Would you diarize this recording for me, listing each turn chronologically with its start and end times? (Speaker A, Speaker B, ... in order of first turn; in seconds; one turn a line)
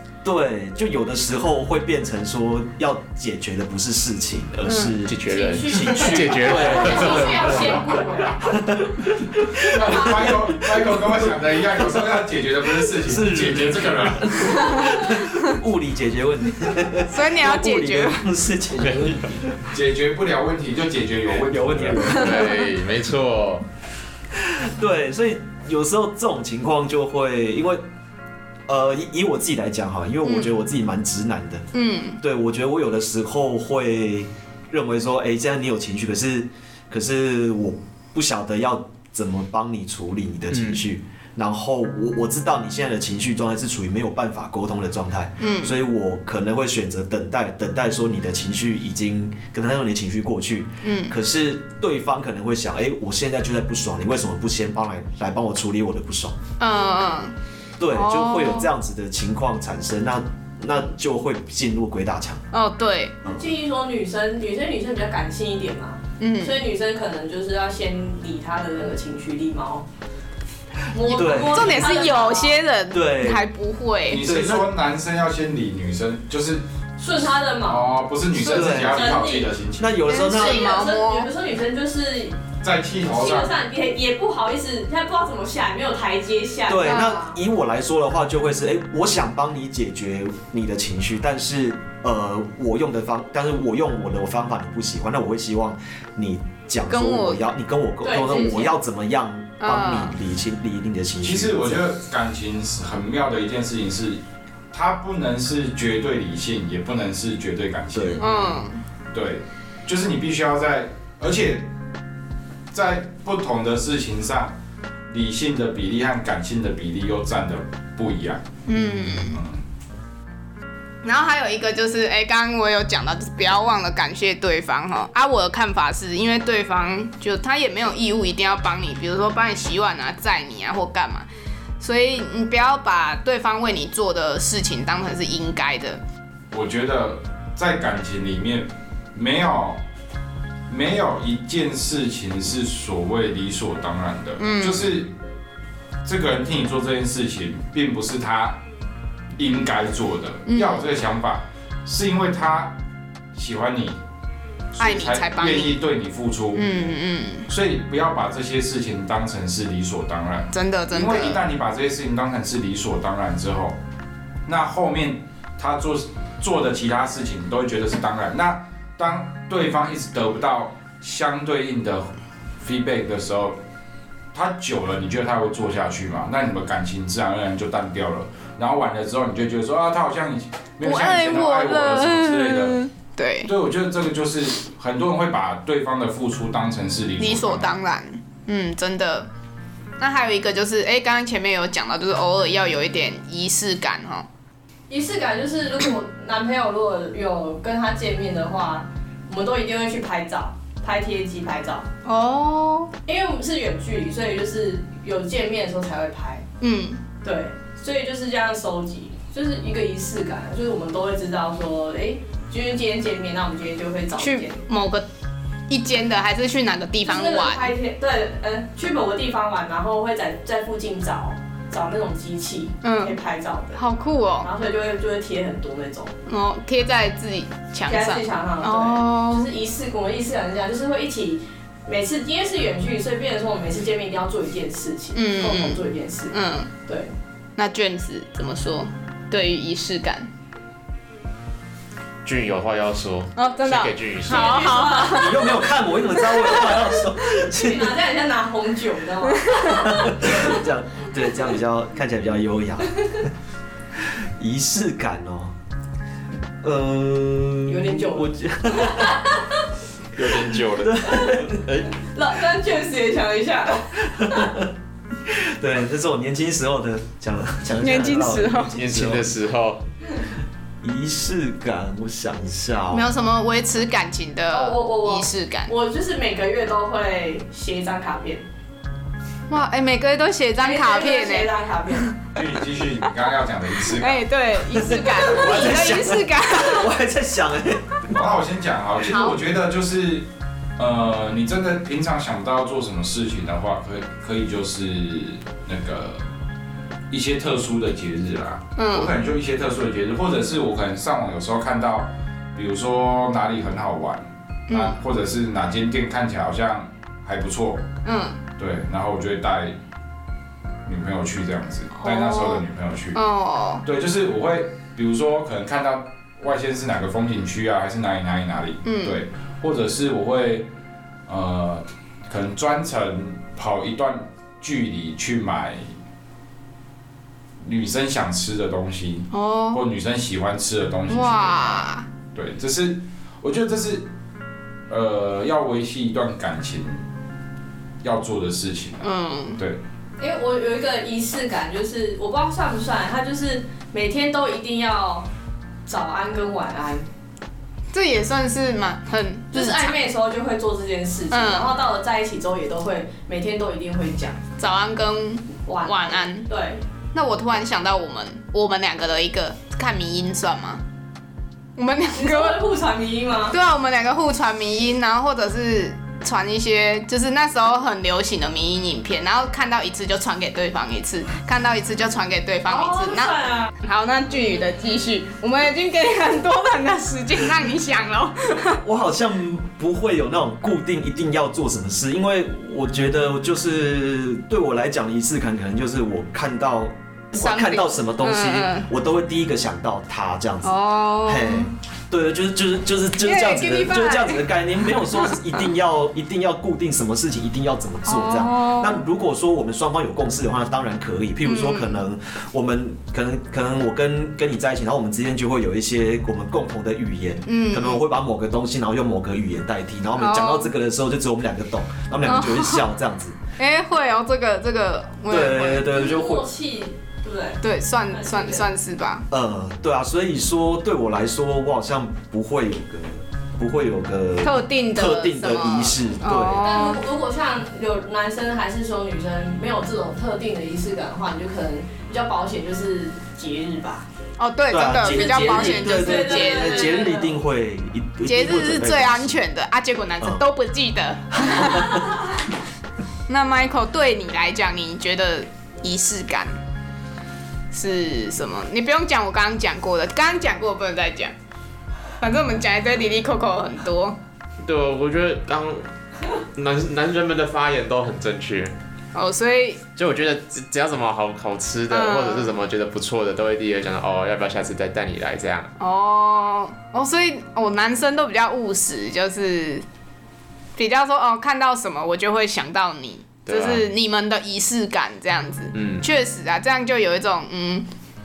Speaker A: 0.2-7.8
Speaker B: 4.7-5.0
Speaker C: 5.0-8.0
Speaker D: 5.2-8.7
Speaker A: 8.4-11.9
Speaker E: 9.6-14.8
Speaker D: 10.0-10.3
Speaker A: 13.0-19.6
Speaker B: 14.5-14.8
Speaker B: 17.1-18.3
Speaker E: 19.7-22.2
Speaker A: 21.5-22.5
Speaker C: 22.0-23.6
Speaker B: 22.2-22.7
Speaker A: 24.3-27.8
Speaker A: 28.7-31.6
Speaker B: 30.2-30.6
Speaker B: 31.7-32.2
Speaker A: 32.2-56.4
Speaker C: 40.5-40.8
Speaker B: 45.4-45.8
Speaker B: 50.8-51.1
Speaker B: 56.6-57.3
Speaker A: 57.8-62.4
Speaker B: 57.9-58.7
Speaker B: 62.5-63.2
Speaker A: 63.2-63.5
Speaker D: 63.3-69.8
Speaker B: 66.2-66.6
Speaker D: 70.9-72.6
Speaker A: 71.0-71.9
Speaker B: 71.1-74.3
Speaker A: 72.9-73.4
Speaker E: 74.1-76.6
Speaker A: 74.2-74.7
Speaker D: 77.0-78.0
Speaker E: 77.6-80.0
Speaker B: 78.3-78.8
Speaker A: 78.5-79.2
Speaker D: 78.8-79.5
Speaker A: 79.8-80.8
Speaker B: 80.0-81.3
Speaker D: 80.1-87.4
Speaker E: 82.6-83.5
Speaker A: 86.7-101.8
Speaker B: 86.8-87.2
Speaker B: 96.9-97.4
Speaker D: 98.0-98.7
Speaker B: 99.6-100.1
Speaker E: 101.2-104.2
Speaker E: 104.7-108.6
Speaker A: 107.9-108.2
Speaker B: 108.2-108.8
Speaker E: 109.1-111.7
Speaker E: 112.7-114.5
Speaker E: 115.1-118.4
Speaker B: 118.7-119.4
Speaker E: 119.2-119.6
Speaker B: 121.0-131.3
Speaker B: 131.8-136.0
Speaker E: 136.5-139.8
Speaker E: 140.7-145.1
Speaker B: 144.4-145.0
Speaker E: 146.0-148.6
Speaker E: 149.4-152.7
Speaker B: 150.5-150.8
Speaker E: 153.3-154.0
Speaker E: 154.8-156.8
Speaker B: 154.8-155.8
Speaker B: 156.5-157.5
Speaker E: 157.5-163.7
Speaker B: 160.5-161.4
Speaker E: 164.4-173.6
Speaker E: 174.3-182.8
Speaker B: 180.8-183.5
Speaker E: 183.4-187.7
Speaker B: 187.2-189.3
Speaker B: 190.0-194.3
Speaker D: 194.9-201.8
Speaker B: 202.0-202.9
Speaker D: 203.1-206.4
Speaker B: 206.6-207.0
Speaker D: 207.2-214.6
Speaker B: 214.2-215.1
Speaker B: 215.7-217.7
Speaker D: 217.0-223.8
Speaker B: 222.8-223.2
Speaker B: 223.7-224.5
Speaker D: 224.4-226.1
Speaker B: 226.3-229.5
Speaker D: 227.9-237.1
Speaker B: 235.1-236.7
Speaker B: 237.6-240.3
Speaker C: 242.2-244.7
Speaker B: 243.3-245.5
Speaker D: 244.2-245.7
Speaker A: 245.1-248.0
Speaker D: 246.4-250.6
Speaker B: 249.4-249.7
Speaker A: 249.7-253.3
Speaker A: 253.9-255.5
Speaker A: 256.6-259.2
Speaker D: 257.7-259.6
Speaker C: 260.1-261.3
Speaker A: 260.2-261.9
Speaker D: 261.1-261.4
Speaker D: 262.0-264.5
Speaker A: 264.0-264.7
Speaker A: 265.2-269.3
Speaker B: 267.7-268.8
Speaker C: 268.7-269.8
Speaker A: 270.8-273.1
Speaker B: 272.9-275.7
Speaker D: 274.5-278.4
Speaker B: 279.5-282.2
Speaker D: 280.6-282.2
Speaker E: 282.3-284.2
Speaker B: 283.9-286.9
Speaker A: 284.7-288.1
Speaker E: 288.1-290.2
Speaker B: 289.1-289.4
Speaker E: 290.8-296.2
Speaker E: 297.1-307.8
Speaker B: 298.8-299.1
Speaker B: 304.7-305.0
Speaker B: 308.0-308.4
Speaker E: 308.6-309.7
Speaker E: 310.9-313.2
Speaker B: 312.0-312.6
Speaker B: 313.1-313.8
Speaker E: 313.8-320.7
Speaker B: 318.8-319.2
Speaker E: 321.3-325.9
Speaker E: 327.6-334.1
Speaker B: 329.3-329.8
Speaker B: 331.1-332.0
Speaker E: 334.9-337.0
Speaker E: 338.0-339.8
Speaker B: 339.0-339.6
Speaker D: 340.2-345.3
Speaker D: 345.9-347.1
Speaker B: 347.9-350.0
Speaker D: 349.5-354.4
Speaker B: 351.3-351.7
Speaker B: 354.6-356.5
Speaker D: 355.6-356.8
Speaker B: 357.1-360.8
Speaker B: 361.8-362.6
Speaker D: 362.1-363.6
Speaker B: 363.5-378.8
Speaker D: 372.7-373.7
Speaker A: 378.8-413.4
Speaker B: 387.3-388.9
Speaker B: 390.6-391.7
Speaker B: 393.2-394.4
Speaker B: 395.0-395.3
Speaker B: 398.1-399.0
Speaker B: 401.4-402.0
Speaker B: 407.5-408.0
Speaker B: 410.2-410.7
Speaker B: 412.2-412.8
Speaker B: 413.6-415.9
Speaker A: 415.3-416.5
Speaker D: 415.8-418.7
Speaker B: 417.6-419.2
Speaker A: 419.3-426.7
Speaker B: 424.4-427.0
Speaker D: 426.6-434.1
Speaker B: 434.4-437.1
Speaker A: 434.7-439.4
Speaker D: 435.3-437.4
Speaker B: 438.2-442.1
Speaker A: 441.3-442.0
Speaker B: 443.3-446.5
Speaker B: 447.7-451.3
Speaker B: 452.2-454.1
Speaker C: 454.6-455.8
Speaker C: 456.5-458.7
Speaker B: 459.1-459.8
Speaker C: 460.0-465.7
Speaker B: 461.9-462.5
Speaker B: 465.8-469.8
Speaker B: 470.8-477.9
Speaker C: 473.4-473.9
Speaker C: 475.7-476.0